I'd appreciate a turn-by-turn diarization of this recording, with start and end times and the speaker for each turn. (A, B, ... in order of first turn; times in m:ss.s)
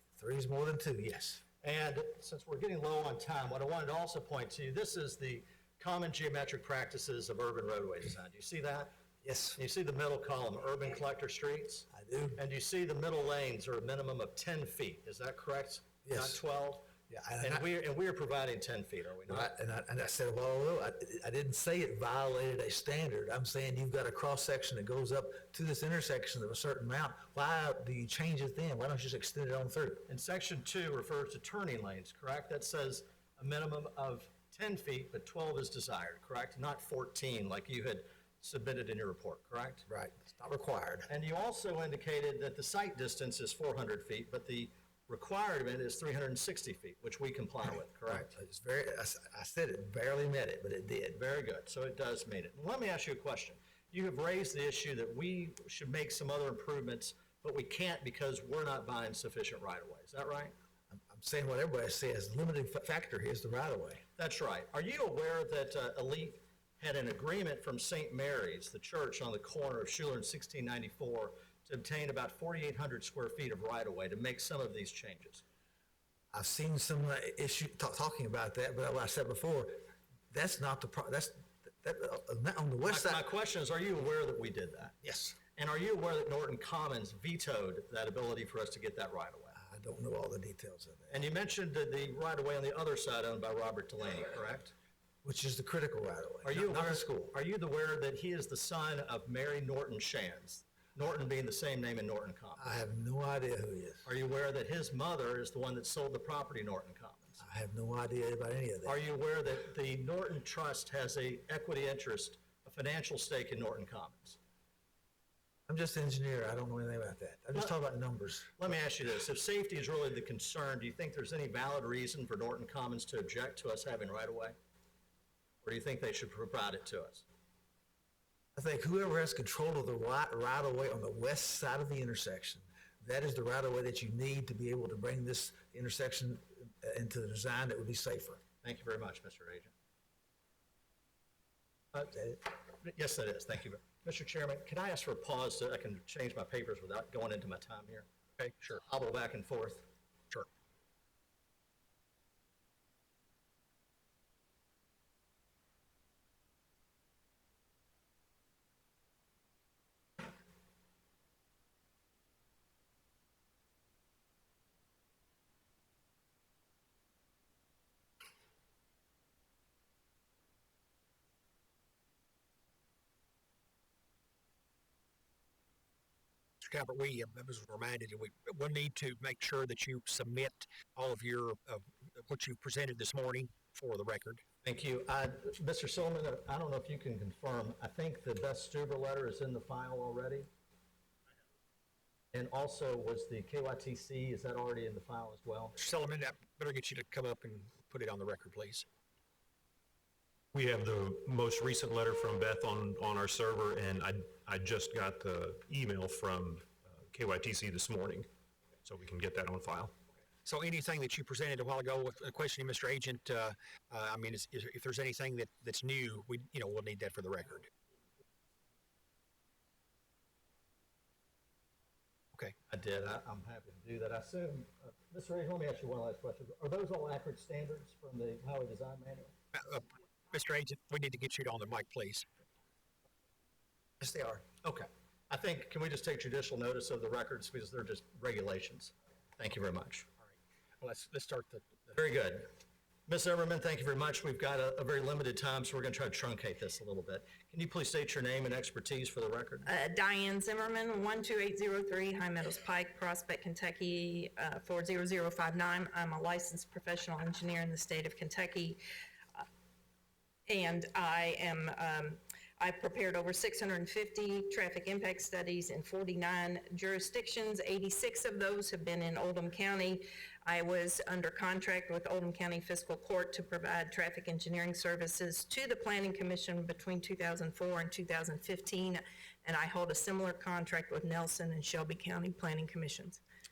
0:00.2-0:01.4 A
0:01.6-0:08.9 B
0:09.2-0:09.6 A
0:09.6-0:19.5 B
0:11.9-0:12.4 A
0:16.0-0:16.4 A
0:17.0-0:17.7 A
0:19.3-0:30.1 A
0:30.1-0:39.8 B
0:39.9-0:41.1 A
0:41.1-0:48.3 B
0:48.1-0:51.2 A
0:51.1-1:00.5 B
1:00.9-1:04.0 A
1:04.2-1:15.4 B
1:16.3-1:23.2 A
1:22.9-1:25.0 B
1:25.0-1:25.4 A
1:25.5-1:29.6 B
1:29.5-1:31.3 A
1:31.1-1:34.7 B
1:35.2-1:37.3 A
1:36.4-1:42.7 B
1:42.6-1:44.1 A
1:44.0-1:47.4 B
1:47.4-1:49.0 A
1:48.8-1:54.4 B
1:55.7-1:58.7 A
1:58.6-2:04.5 B
2:05.6-2:07.2 B
2:08.6-2:18.4 A
2:18.6-2:19.7 B
2:21.9-2:22.4 A
2:22.6-2:28.0 B
2:28.4-2:28.8 C
2:28.7-2:29.9 B
2:56.6-3:04.4 C
3:04.6-3:10.5 B
3:12.3-3:15.8 B
3:15.8-3:18.8 C
3:20.5-3:28.3 D
3:28.8-3:29.9 D
3:30.4-3:37.7 C
3:42.7-3:49.3 B
3:49.5-3:52.2 C
3:54.0-3:54.4 A
3:54.6-4:00.1 B
4:00.2-4:01.9 C
4:01.9-4:02.5 B
4:03.1-4:09.7 B
4:09.6-4:18.8 E
4:20.5-4:43.2 E